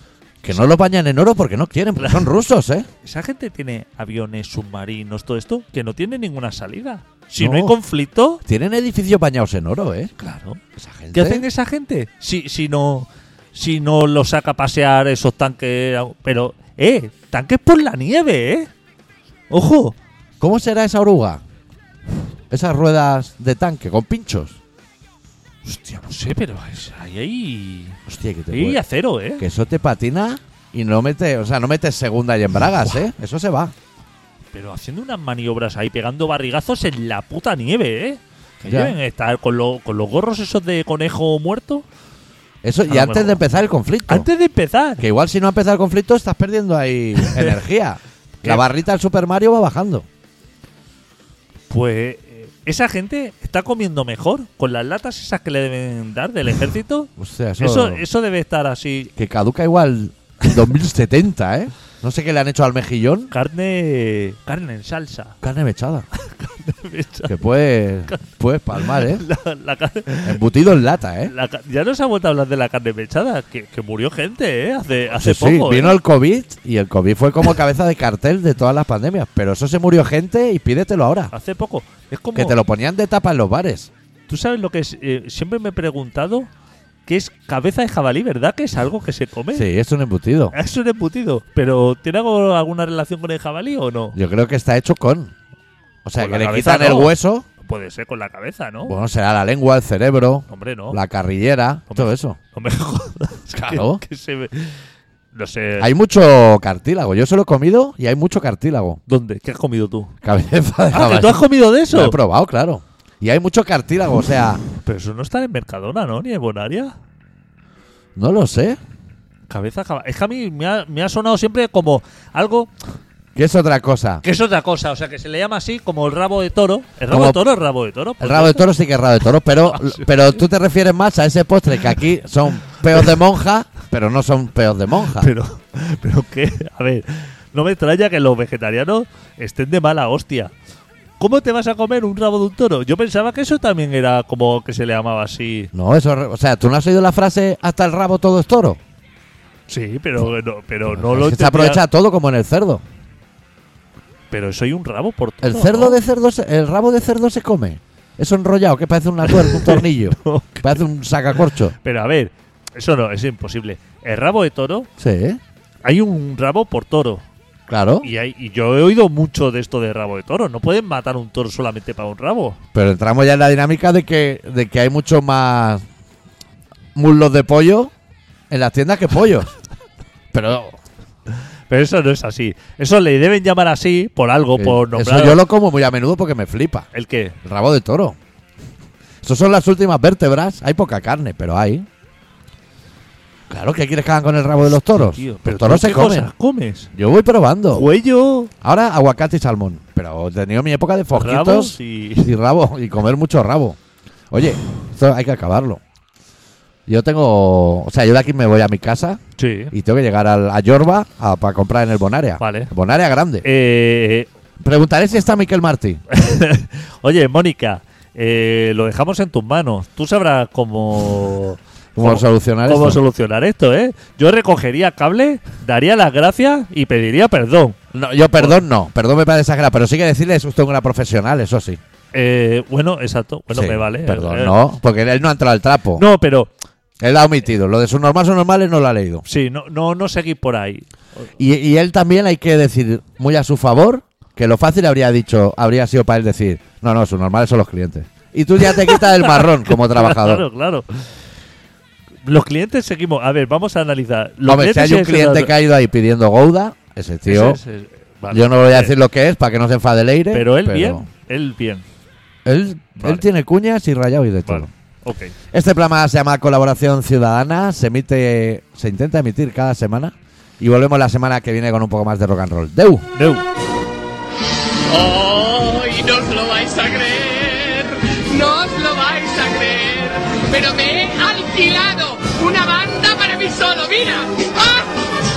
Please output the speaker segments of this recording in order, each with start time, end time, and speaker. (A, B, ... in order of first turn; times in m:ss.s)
0:00.4-0:02.9 A
0:02.0-0:02.3 B
0:03.0-0:08.4 B
0:07.4-0:07.8 A
0:08.4-0:10.1 A
0:10.2-0:10.6 B
0:10.8-0:11.5 A
0:11.1-0:18.7 B
0:19.5-0:20.0 B
0:20.4-0:21.4 A
0:22.5-0:24.6 A
0:25.6-0:28.0 B
0:28.1-0:28.8 A
0:28.5-0:29.4 B
0:29.4-0:33.7 A
0:34.5-0:41.8 B
0:38.7-0:39.0 A
0:42.6-0:44.3 A
0:42.9-0:43.4 B
0:44.1-0:45.0 B
0:45.0-0:50.1 A
0:47.2-0:47.6 B
0:51.7-0:59.1 B
0:57.2-0:58.0 A
0:59.2-1:03.3 A
1:03.3-1:05.4 B
1:05.4-1:06.1 A
1:06.2-1:07.4 B
1:07.3-1:09.2 A
1:08.8-1:10.4 B
1:10.2-1:11.3 A
1:11.3-1:16.0 B
1:15.1-1:21.3 A
1:21.3-1:22.6 B
1:22.4-1:23.9 A
1:24.3-1:26.5 B
1:27.1-1:29.7 B
1:29.5-1:30.6 A
1:30.5-1:34.2 B
1:34.1-1:35.3 A
1:36.0-1:37.5 A
1:36.2-1:39.0 B
1:38.9-1:42.4 A
1:40.5-1:41.0 B
1:41.9-1:44.8 B
1:43.5-1:44.0 A
1:45.3-1:45.9 B
1:45.8-1:49.0 A
1:49.1-1:50.1 B
1:50.2-1:54.6 A
1:50.9-1:52.2 B
1:54.8-1:56.9 B
1:58.2-1:58.8 A
1:59.5-2:02.7 B
2:03.4-2:04.2 A
2:04.2-2:08.6 B
2:07.1-2:07.4 A
2:08.2-2:15.3 A
2:09.6-2:10.2 B
2:15.0-2:20.5 B
2:21.2-2:25.7 B
2:25.7-2:28.8 A
2:29.7-2:31.8 B
2:30.9-2:32.8 A
2:34.3-2:36.0 B
2:35.4-2:41.8 A
2:39.2-2:40.8 B
2:41.4-2:44.9 B
2:45.0-2:45.4 A
2:45.8-2:47.2 B
2:47.7-2:48.1 A
2:48.0-2:52.6 B
2:52.7-2:55.8 A
2:57.0-2:57.9 A
2:58.5-2:59.6 A
3:00.3-3:00.8 A
3:01.7-3:05.4 B
3:04.6-3:06.9 A
3:06.9-3:07.4 B
3:07.4-3:08.2 A
3:09.2-3:11.9 A
3:13.5-3:16.3 A
3:14.8-3:16.9 B
3:17.0-3:17.9 A
3:17.7-3:18.5 B
3:18.6-3:23.8 A
3:21.2-3:22.3 B
3:24.3-3:25.8 A
3:26.9-3:29.2 A
3:29.4-3:29.7 B
3:29.7-3:33.5 A
3:32.4-3:32.7 B
3:33.4-3:34.3 B
3:34.6-3:36.0 A
3:36.1-3:47.8 B
3:42.0-3:43.0 A
3:47.9-3:51.8 A
3:52.1-3:54.6 B
3:53.5-3:56.0 A
3:56.0-3:56.5 B
3:57.0-3:59.2 A
3:59.3-4:00.9 B
4:01.4-4:10.4 A
4:08.7-4:11.1 B
4:12.2-4:15.5 B
4:14.4-4:17.6 A
4:17.3-4:18.9 B
4:18.3-4:21.0 A
4:20.3-4:21.8 B
4:22.4-4:24.7 A
4:23.0-4:23.2 B
4:24.5-4:25.4 B
4:25.5-4:33.1 A
4:33.2-4:33.4 B
4:34.9-4:44.9 C